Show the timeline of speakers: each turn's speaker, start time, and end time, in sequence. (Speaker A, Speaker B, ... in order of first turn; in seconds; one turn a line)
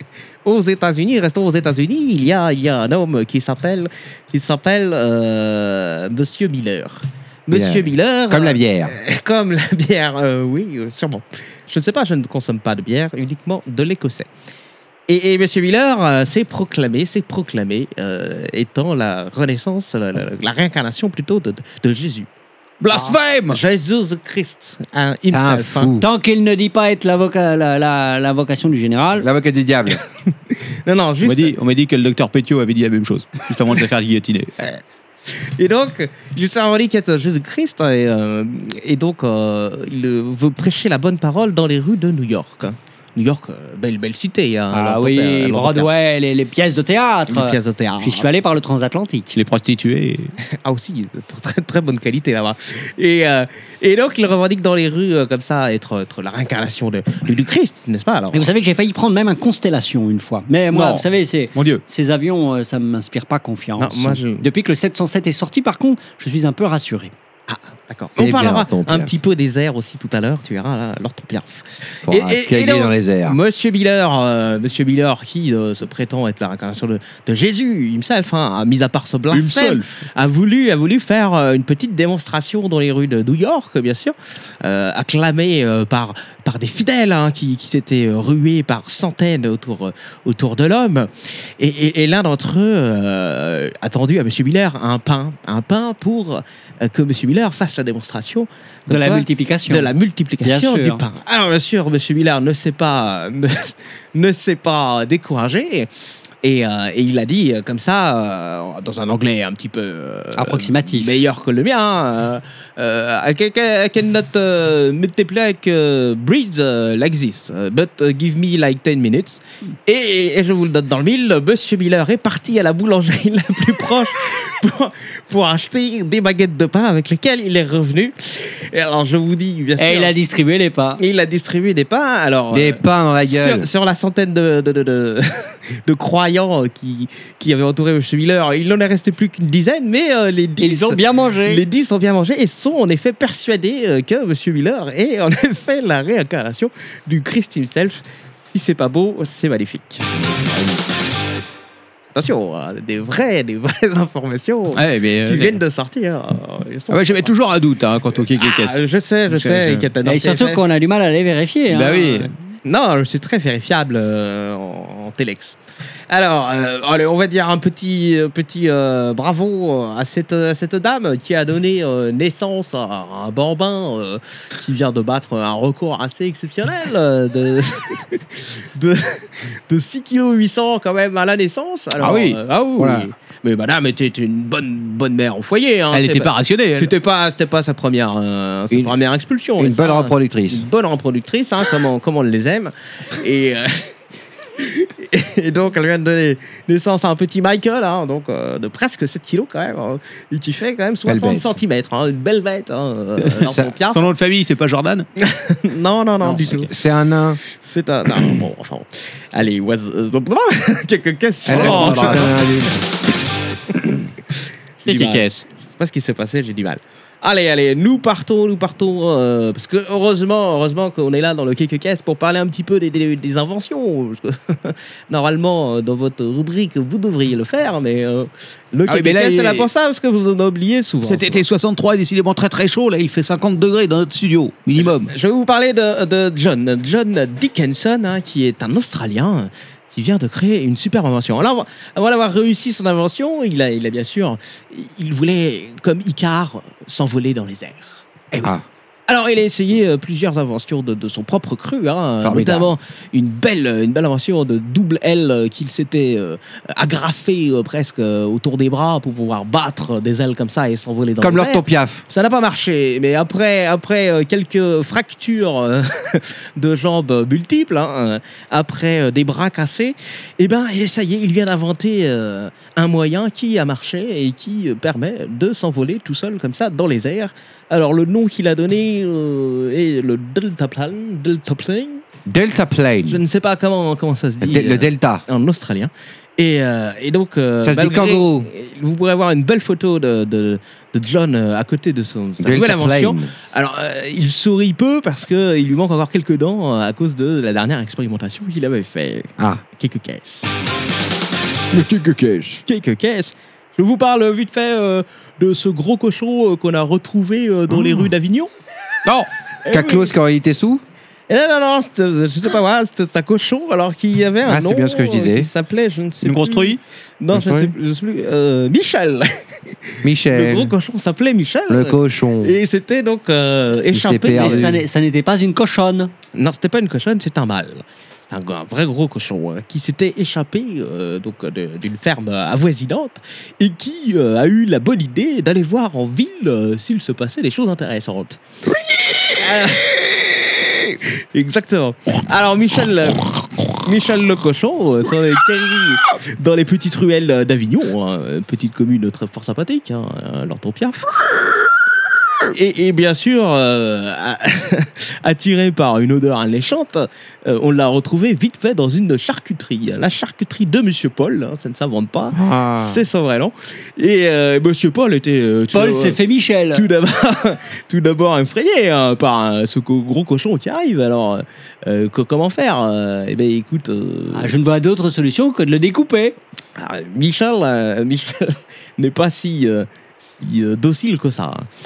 Speaker A: 0.4-14.3
Speaker B: 7.5-8.9
Speaker A: 15.1-22.3
Speaker C: 22.8-23.6
Speaker A: 22.9-25.9
Speaker B: 25.3-26.1
Speaker D: 26.0-29.3
Speaker B: 29.2-30.0
Speaker A: 30.5-31.5
Speaker C: 31.2-34.5
Speaker A: 35.5-45.9
Speaker D: 44.7-49.4
Speaker A: 47.3-48.3
Speaker C: 49.3-50.3
Speaker A: 50.5-58.5
Speaker D: 58.3-67.1
Speaker C: 60.7-61.8
Speaker A: 63.8-64.5
Speaker A: 67.5-105.9
Speaker B: 68.2-69.1
Speaker B: 72.1-73.4
Speaker C: 79.3-79.9
Speaker D: 98.9-99.9
Speaker D: 100.4-101.0
Speaker A: 106.4-130.1
Speaker D: 110.3-111.2
Speaker D: 129.8-131.0
Speaker A: 131.0-150.1
Speaker B: 132.5-133.7
Speaker D: 140.6-141.6
Speaker B: 150.1-151.0
Speaker A: 152.1-157.3
Speaker C: 154.7-155.6
Speaker C: 156.9-159.9
Speaker A: 158.3-160.6
Speaker D: 160.0-162.3
Speaker C: 161.7-162.3
Speaker A: 162.6-165.6
Speaker A: 166.1-193.9
Speaker C: 182.0-183.0
Speaker B: 182.8-183.1
Speaker C: 185.9-186.9
Speaker B: 189.6-190.7
Speaker A: 194.6-204.1
Speaker B: 201.1-201.6
Speaker B: 203.3-203.7
Speaker C: 203.9-205.1
Speaker A: 205.2-206.7
Speaker C: 206.2-206.7
Speaker B: 206.4-207.4
Speaker A: 207.4-212.5
Speaker B: 211.4-212.8
Speaker C: 211.5-212.3
Speaker A: 214.8-231.4
Speaker C: 214.8-215.4
Speaker C: 228.8-229.7
Speaker C: 231.0-235.1
Speaker A: 234.8-248.5
Speaker A: 249.1-282.0
Speaker B: 252.2-252.7
Speaker B: 261.2-262.0
Speaker B: 282.2-283.2
Speaker A: 283.1-300.5
Speaker B: 284.4-285.2
Speaker B: 287.6-288.5
Speaker B: 292.4-293.3
Speaker B: 299.4-299.6
Speaker B: 301.7-302.6
Speaker A: 302.6-308.5
Speaker B: 307.7-308.1
Speaker A: 309.6-310.1
Speaker B: 309.7-310.8
Speaker A: 311.3-324.8
Speaker B: 314.4-315.5
Speaker C: 316.2-316.8
Speaker B: 317.3-317.7
Speaker B: 320.0-320.7
Speaker B: 321.7-322.6
Speaker B: 323.9-324.8
Speaker D: 324.3-326.1
Speaker A: 326.3-351.1
Speaker A: 352.5-366.2
Speaker B: 362.3-363.0
Speaker D: 365.7-366.9
Speaker A: 366.7-374.5
Speaker D: 374.3-376.4
Speaker A: 376.8-381.7